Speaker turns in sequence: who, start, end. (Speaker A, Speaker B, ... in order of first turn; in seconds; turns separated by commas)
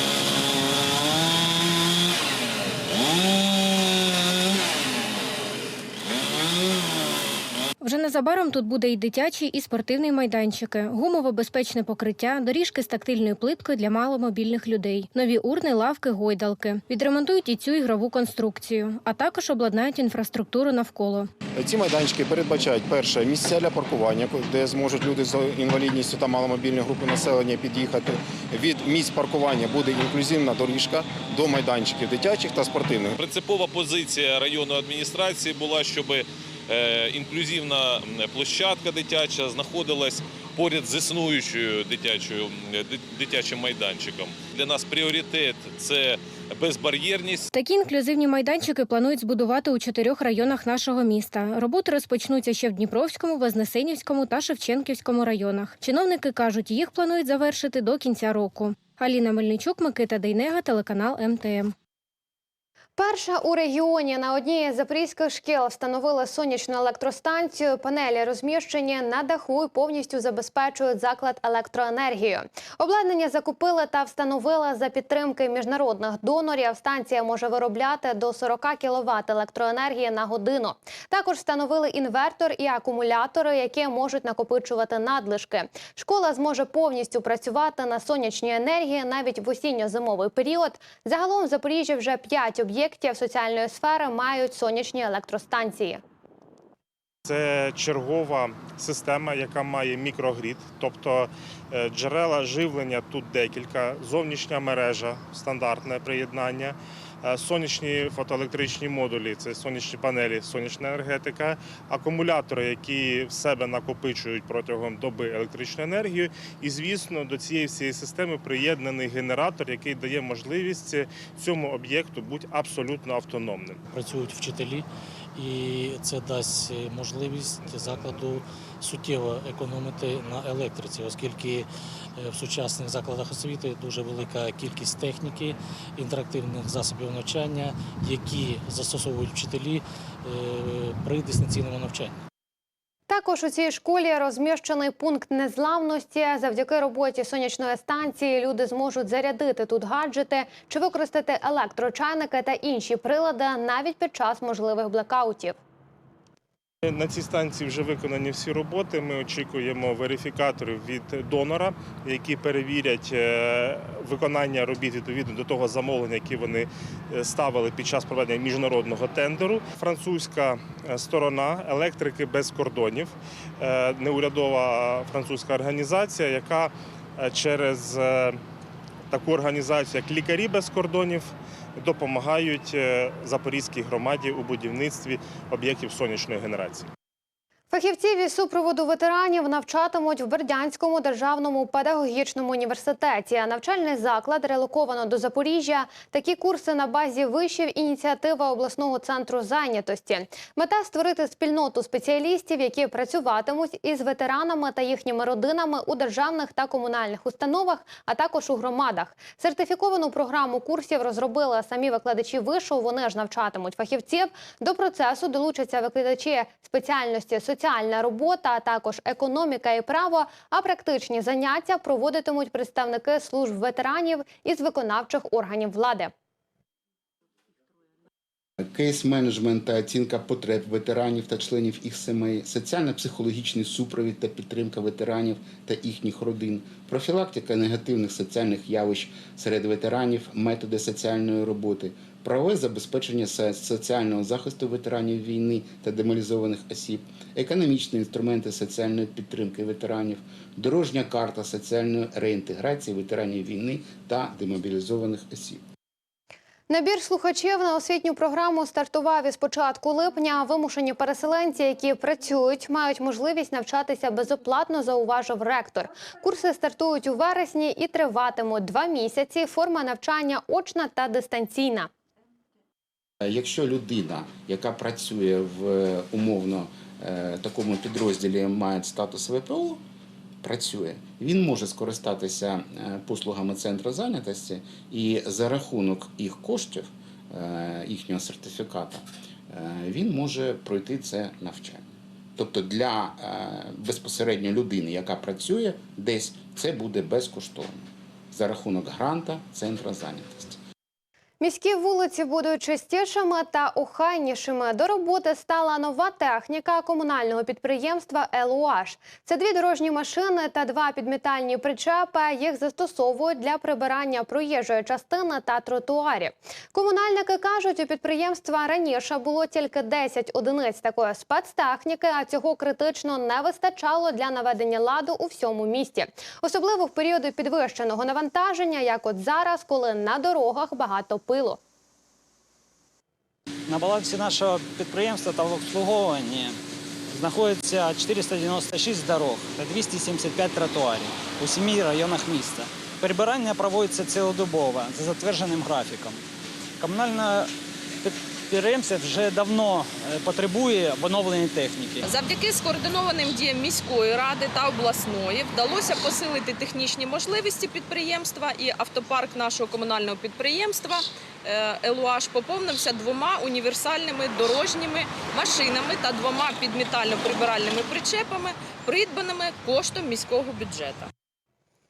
Speaker A: 7.8-21.3, Speaker B: 21.6-33.2, Speaker C: 33.2-47.5, Speaker A: 47.5-61.7, Speaker D: 63.0-96.0, Speaker E: 97.2-123.8, Speaker F: 123.9-142.2, Speaker D: 143.1-155.6, Speaker E: 156.8-178.4, Speaker E: 179.1-186.9, Speaker D: 187.7-226.1, Speaker G: 228.6-255.6, Speaker D: 256.7-271.9, Speaker G: 273.2-279.8, Speaker G: 280.4-300.6, Speaker D: 301.4-331.6, Speaker H: 333.7-336.5, Speaker H: 337.1-346.2, Speaker H: 346.8-347.5, Speaker H: 348.0-352.0, Speaker I: 352.1-371.1